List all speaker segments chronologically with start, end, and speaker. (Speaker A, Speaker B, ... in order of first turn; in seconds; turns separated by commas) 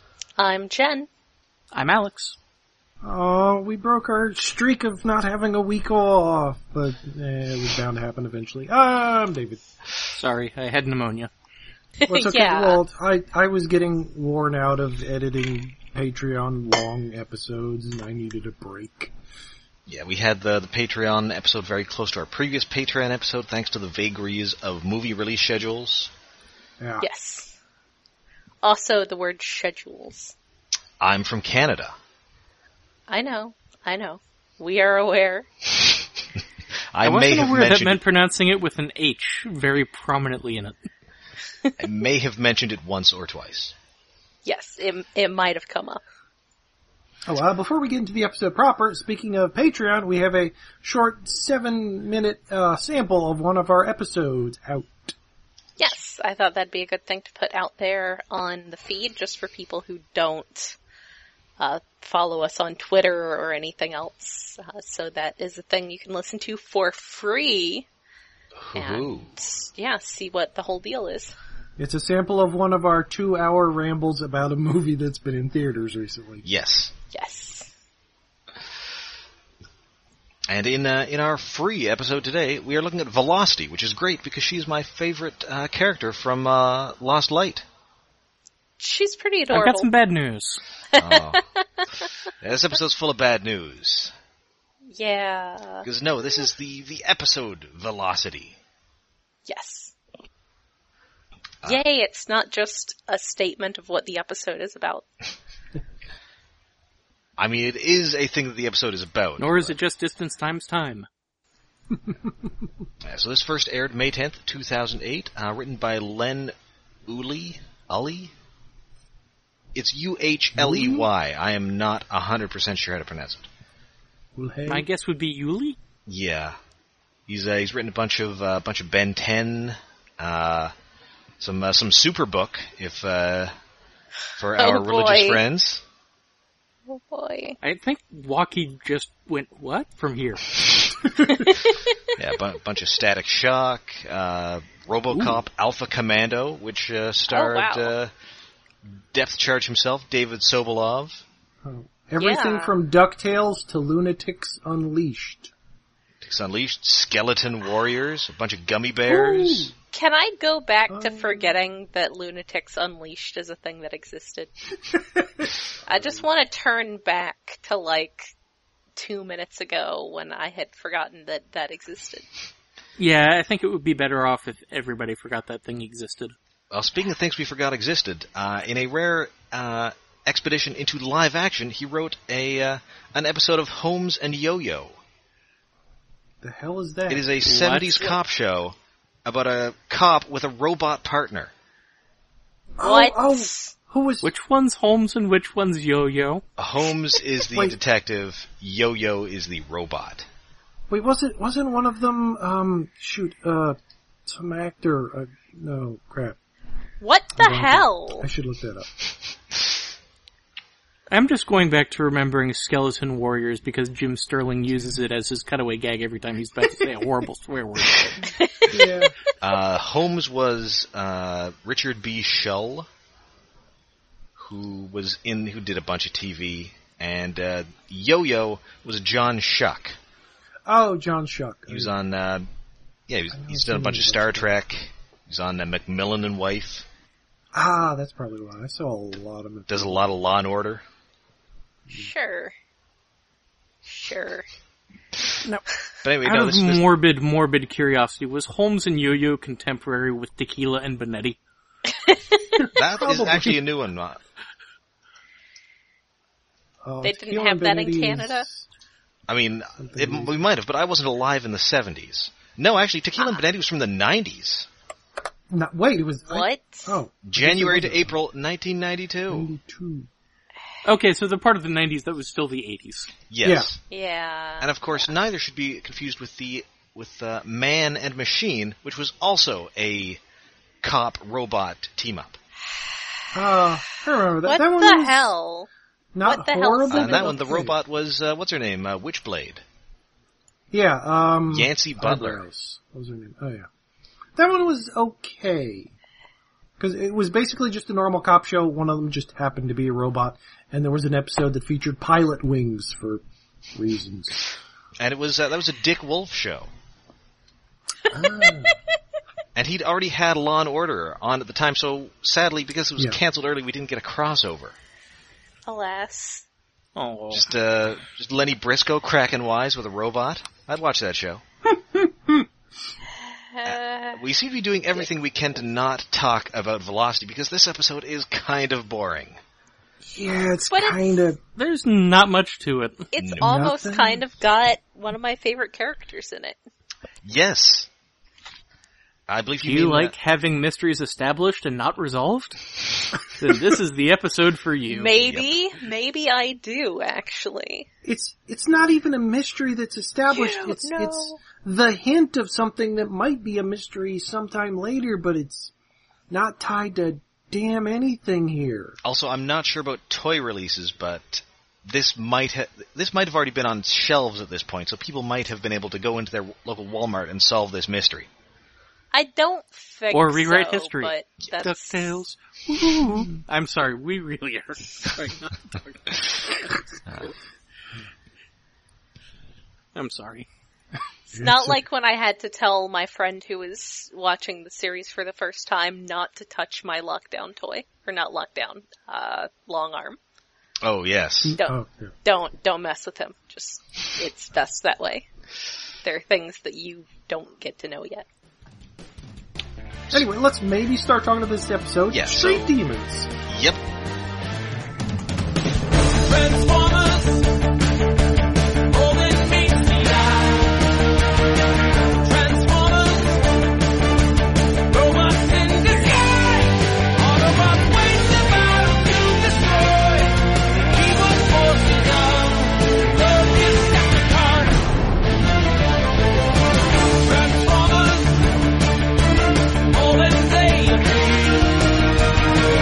Speaker A: 0.4-1.1, Speaker B: 1.7-2.4, Speaker C: 3.0-9.6, Speaker B: 10.1-11.3, Speaker A: 12.0-12.8, Speaker C: 12.1-19.1, Speaker D: 19.9-26.1, Speaker C: 26.8-27.1, Speaker A: 27.0-27.6, Speaker A: 28.6-30.3, Speaker D: 31.0-31.9, Speaker A: 33.1-35.5, Speaker D: 36.9-38.0, Speaker B: 37.0-40.9, Speaker D: 41.8-43.7, Speaker A: 44.5-46.0, Speaker C: 47.3-55.1, Speaker A: 55.8-60.8, Speaker A: 61.6-67.9, Speaker D: 68.6-69.3, Speaker A: 68.8-71.3, Speaker C: 71.8-76.4, Speaker D: 76.4-76.9, Speaker A: 77.1-77.7, Speaker D: 80.5-87.7, Speaker A: 88.8-89.9, Speaker B: 89.5-90.6, Speaker D: 90.9-91.5, Speaker D: 92.4-94.1, Speaker A: 94.9-95.9, Speaker D: 95.8-98.6, Speaker A: 99.5-100.0, Speaker A: 101.6-105.1, Speaker D: 107.4-109.8, Speaker B: 109.4-111.1, Speaker D: 113.0-116.5, Speaker D: 117.1-118.3, Speaker D: 119.8-123.5, Speaker C: 120.6-121.1, Speaker C: 124.4-124.9, Speaker B: 124.7-125.8, Speaker D: 126.1-126.6, Speaker D: 127.3-130.7, Speaker D: 131.4-133.5, Speaker D: 134.4-135.8, Speaker A: 134.6-135.4, Speaker A: 136.9-137.6, Speaker B: 137.6-140.6, Speaker A: 141.4-141.9, Speaker D: 142.2-148.1, Speaker A: 147.3-147.9, Speaker D: 149.1-151.2, Speaker C: 151.6-155.5, Speaker A: 152.2-152.7, Speaker D: 156.2-159.7, Speaker C: 159.1-159.7, Speaker A: 159.9-164.5, Speaker C: 160.9-161.6, Speaker C: 165.2-166.2, Speaker A: 165.9-168.3, Speaker A: 169.0-172.3, Speaker B: 173.0-176.3, Speaker D: 176.7-185.0, Speaker C: 186.4-187.3, Speaker D: 187.1-191.5, Speaker B: 187.4-188.2, Speaker C: 192.8-194.3, Speaker A: 192.8-193.7, Speaker B: 194.2-196.4, Speaker D: 196.6-200.3, Speaker C: 197.5-197.8, Speaker C: 200.9-206.4, Speaker A: 207.0-208.3, Speaker C: 207.3-208.9, Speaker B: 211.1-218.4, Speaker A: 218.3-218.8, Speaker C: 218.7-219.1, Speaker D: 219.4-222.9, Speaker D: 224.4-230.0, Speaker C: 230.7-231.9, Speaker D: 231.7-232.5, Speaker D: 233.1-236.9, Speaker C: 233.3-234.5, Speaker C: 237.5-240.0, Speaker D: 239.7-240.8, Speaker A: 241.9-242.5, Speaker A: 243.9-244.5, Speaker D: 246.0-246.8, Speaker B: 246.2-251.4, Speaker A: 252.1-252.6, Speaker D: 252.7-254.2, Speaker C: 253.0-253.6, Speaker C: 256.8-258.7, Speaker A: 257.0-258.5, Speaker D: 259.3-264.7, Speaker C: 259.8-260.3, Speaker C: 265.5-268.1, Speaker A: 266.3-267.0, Speaker D: 267.2-269.5, Speaker C: 269.3-270.1, Speaker B: 270.9-273.1, Speaker D: 273.3-273.8, Speaker C: 273.4-273.7, Speaker A: 273.9-275.1, Speaker D: 274.6-280.2, Speaker D: 280.8-282.4, Speaker C: 283.3-285.3, Speaker A: 284.4-285.7, Speaker C: 286.1-287.8, Speaker A: 286.2-287.4, Speaker D: 286.9-289.6, Speaker C: 290.7-293.7, Speaker D: 291.5-292.4, Speaker C: 294.4-295.9, Speaker C: 296.8-304.4, Speaker D: 305.0-306.7, Speaker C: 308.1-308.8, Speaker D: 309.6-314.8, Speaker A: 315.7-316.4, Speaker B: 317.0-317.5, Speaker D: 317.3-321.4, Speaker C: 321.7-322.5, Speaker A: 323.2-324.2, Speaker D: 323.6-329.4, Speaker C: 330.0-331.4, Speaker A: 330.7-331.2, Speaker B: 331.6-333.1, Speaker A: 333.1-336.6, Speaker D: 333.2-333.6, Speaker C: 333.4-334.2, Speaker D: 337.2-337.9, Speaker D: 339.3-340.1, Speaker B: 339.6-345.1, Speaker A: 344.9-347.9, Speaker D: 345.2-345.5, Speaker C: 348.0-355.7, Speaker A: 350.3-351.4, Speaker C: 356.3-359.0, Speaker D: 359.0-368.3, Speaker A: 369.1-372.1, Speaker B: 370.1-376.7, Speaker B: 379.9-380.5, Speaker A: 381.3-390.2, Speaker C: 381.4-381.8, Speaker D: 390.8-391.6, Speaker C: 391.4-392.1, Speaker A: 391.5-395.3, Speaker A: 396.0-398.3, Speaker C: 400.1-403.3, Speaker D: 402.1-402.8, Speaker D: 403.4-403.8, Speaker E: 406.3-407.5, Speaker E: 408.9-410.8, Speaker E: 412.2-413.6, Speaker E: 414.9-424.8, Speaker E: 427.2-428.5, Speaker E: 429.9-431.7